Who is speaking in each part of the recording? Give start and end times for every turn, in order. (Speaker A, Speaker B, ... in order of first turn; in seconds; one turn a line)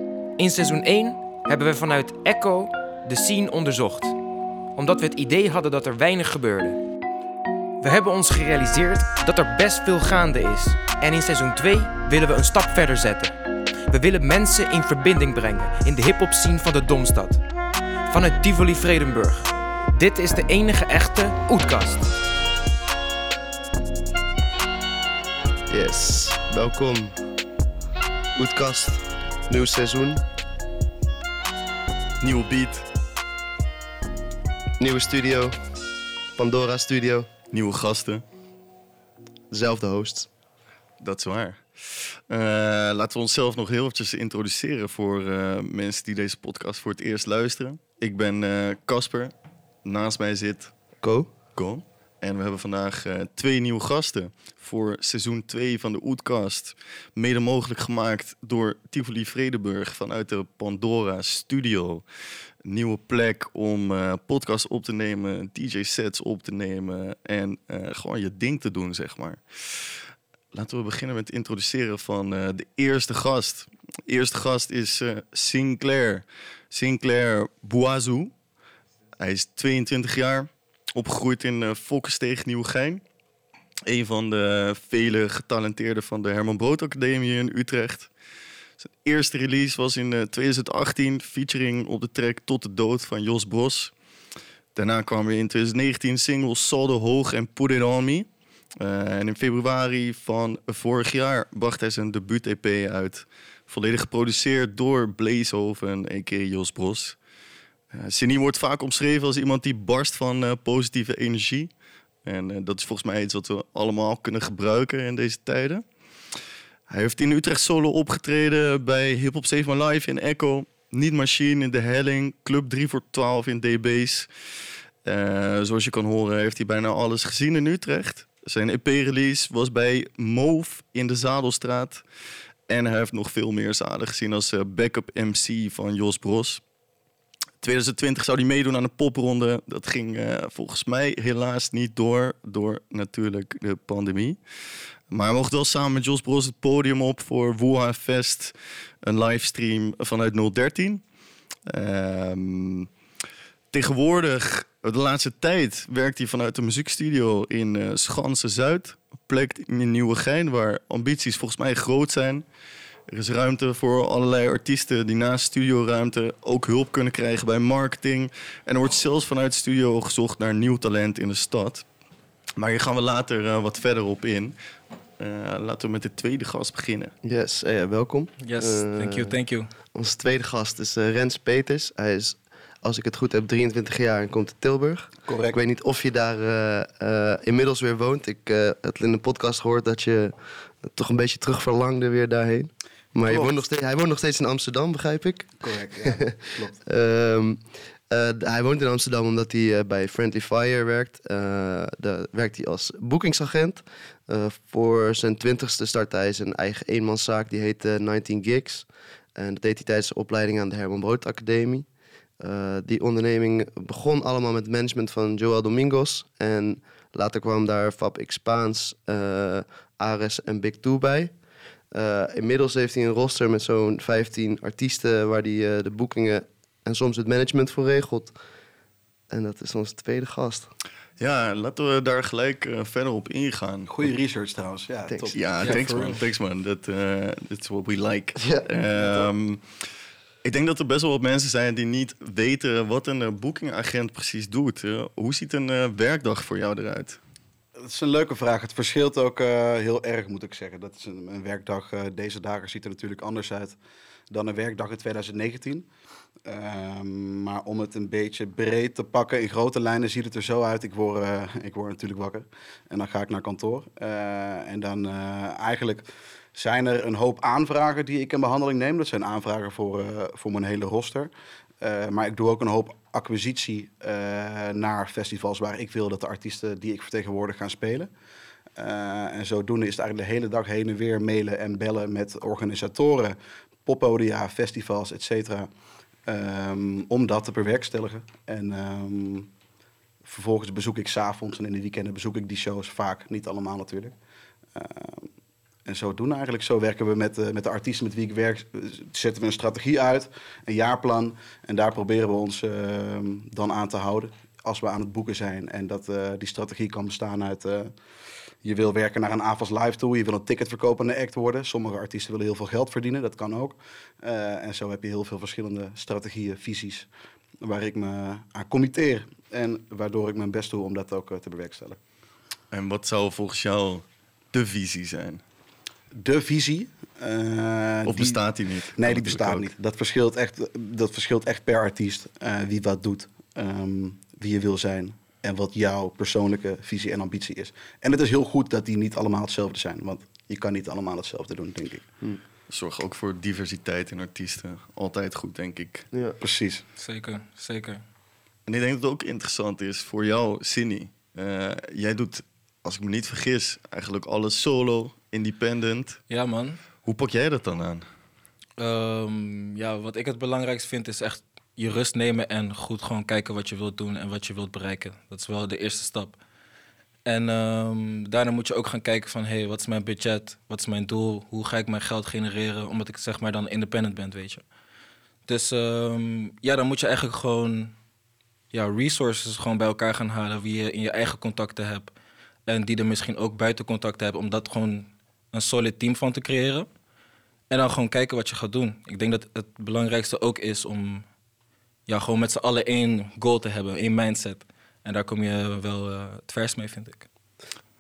Speaker A: 0.4-4.2
Speaker A: 4.8-6.8
Speaker A: 7.8-13.3
Speaker A: 13.9-17.4
Speaker A: 18.1-22.1
Speaker B: 25.7-27.3
Speaker B: 28.4-30.2
Speaker C: 32.2-32.9
Speaker B: 34.8-35.6
Speaker B: 36.4-37.3
Speaker C: 37.5-38.2
Speaker B: 39.5-40.3
Speaker C: 41.0-49.3
Speaker C: 49.9-50.7
Speaker B: 51.0-51.3
Speaker C: 51.6-62.0
Speaker C: 62.6-70.0
Speaker C: 70.5-78.3
Speaker C: 79.2-83.0
Speaker C: 83.9-88.1
Speaker C: 89.0-93.9
Speaker C: 94.8-98.3
Speaker C: 98.8-107.2
Speaker C: 107.9-111.7
Speaker C: 112.2-115.8
Speaker C: 116.9-124.3
Speaker C: 125.0-132.0
Speaker C: 132.7-136.6
Speaker C: 137.6-144.4
Speaker C: 145.1-151.0
Speaker C: 151.7-152.9
Speaker C: 153.7-162.4
Speaker C: 163.1-171.8
Speaker C: 172.6-174.5
Speaker C: 175.2-177.2
Speaker B: 177.2-179.3
Speaker D: 178.4-179.7
Speaker B: 179.9-211.9
Speaker E: 185.3-185.6
Speaker E: 193.2-193.6
Speaker E: 195.6-196.8
Speaker B: 212.4-221.3
Speaker B: 221.9-228.3
Speaker B: 229.3-230.7
Speaker C: 231.2-234.0
Speaker E: 233.9-236.1
Speaker C: 235.3-239.6
Speaker D: 235.6-236.2
Speaker B: 238.4-238.7
Speaker E: 238.9-239.3
Speaker C: 240.4-247.2
Speaker E: 247.8-253.8
Speaker E: 254.3-255.9
Speaker E: 256.4-278.1
Speaker E: 278.8-285.7
Speaker E: 286.3-289.5
Speaker E: 290.2-294.1
Speaker E: 294.8-295.3
Speaker E: 295.9-307.9
Speaker E: 308.6-317.1
Speaker E: 317.6-322.0
Speaker C: 322.7-325.4
Speaker E: 326.1-328.4
Speaker C: 328.1-329.7
Speaker E: 328.9-342.1
Speaker C: 342.7-346.1
Speaker E: 346.4-346.8
Speaker D: 347.0-348.0
Speaker C: 348.7-356.2
Speaker D: 356.3-356.8
Speaker C: 357.0-358.0
Speaker D: 358.8-366.4
Speaker D: 367.3-374.6
Speaker D: 375.5-377.9
Speaker D: 378.7-382.1
Speaker D: 382.7-386.9
Speaker D: 387.7-391.2
Speaker D: 392.1-397.3